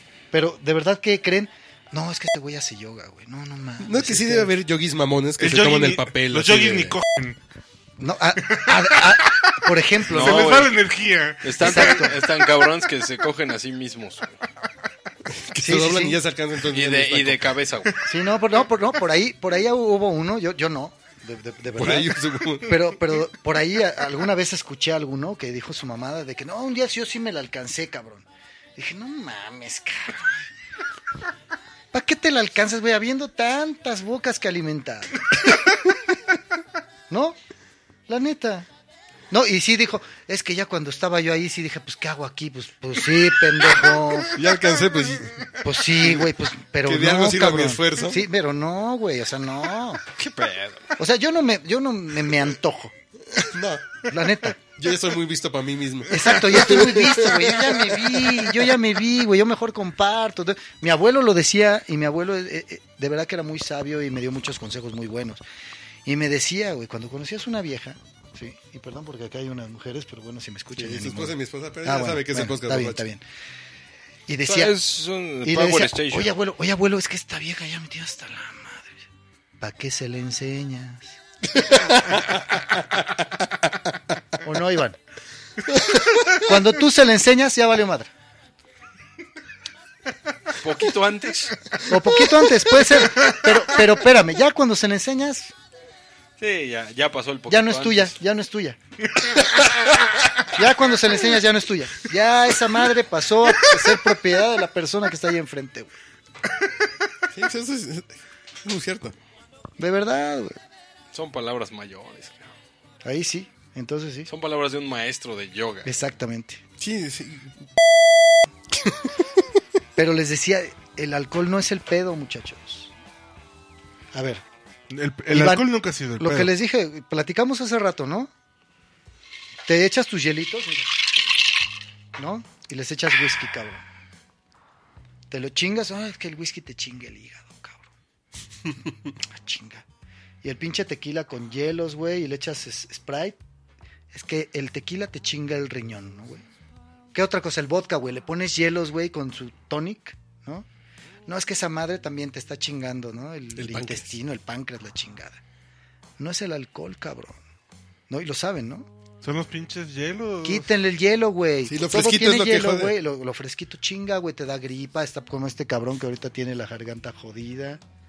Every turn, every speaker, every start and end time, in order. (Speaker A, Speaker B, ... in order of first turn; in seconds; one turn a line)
Speaker A: 0.3-4.5
Speaker B: 3.8-7.0
Speaker C: 5.4-7.4
Speaker A: 8.0-10.7
Speaker C: 8.4-12.3
Speaker D: 10.1-10.8
Speaker D: 11.4-14.3
Speaker A: 11.6-12.2
Speaker B: 15.3-17.6
Speaker A: 15.6-16.2
Speaker D: 16.7-18.0
Speaker A: 18.1-30.5
Speaker B: 21.8-22.9
Speaker A: 31.9-35.6
Speaker A: 37.1-37.4
Speaker A: 38.1-38.7
Speaker A: 39.3-44.4
Speaker B: 44.3-48.3
Speaker A: 45.6-50.0
Speaker D: 50.2-50.9
Speaker A: 51.0-52.9
Speaker B: 53.3-54.0
Speaker A: 54.1-54.6
Speaker B: 54.8-58.8
Speaker A: 56.1-65.4
Speaker A: 66.0-73.2
Speaker B: 70.8-73.1
Speaker A: 74.3-74.8
Speaker D: 74.5-76.3
Speaker A: 75.4-79.0
Speaker A: 79.6-81.1
Speaker B: 81.5-83.7
Speaker A: 84.4-85.0
Speaker B: 85.7-86.2
Speaker A: 86.3-88.1
Speaker D: 90.6-91.6
Speaker A: 91.9-95.5
Speaker D: 96.4-98.2
Speaker A: 97.5-98.8
Speaker A: 100.5-105.9
Speaker B: 107.3-109.2
Speaker A: 109.8-110.6
Speaker D: 111.1-112.5
Speaker A: 113.0-114.3
Speaker D: 114.3-115.9
Speaker A: 115.8-116.6
Speaker B: 116.8-117.6
Speaker B: 118.7-119.2
Speaker A: 120.0-122.9
Speaker A: 124.1-124.4
Speaker C: 124.9-126.5
Speaker A: 125.3-125.7
Speaker A: 126.2-128.3
Speaker A: 129.7-130.9
Speaker A: 132.2-133.8
Speaker A: 135.3-137.9
Speaker A: 139.1-139.8
Speaker A: 140.4-143.4
Speaker A: 144.1-146.4
Speaker A: 147.1-150.7
Speaker A: 151.3-155.4
Speaker B: 153.6-154.1
Speaker A: 156.2-157.4
Speaker A: 158.1-158.9
Speaker C: 159.2-160.7
Speaker A: 160.4-167.8
Speaker B: 161.7-163.0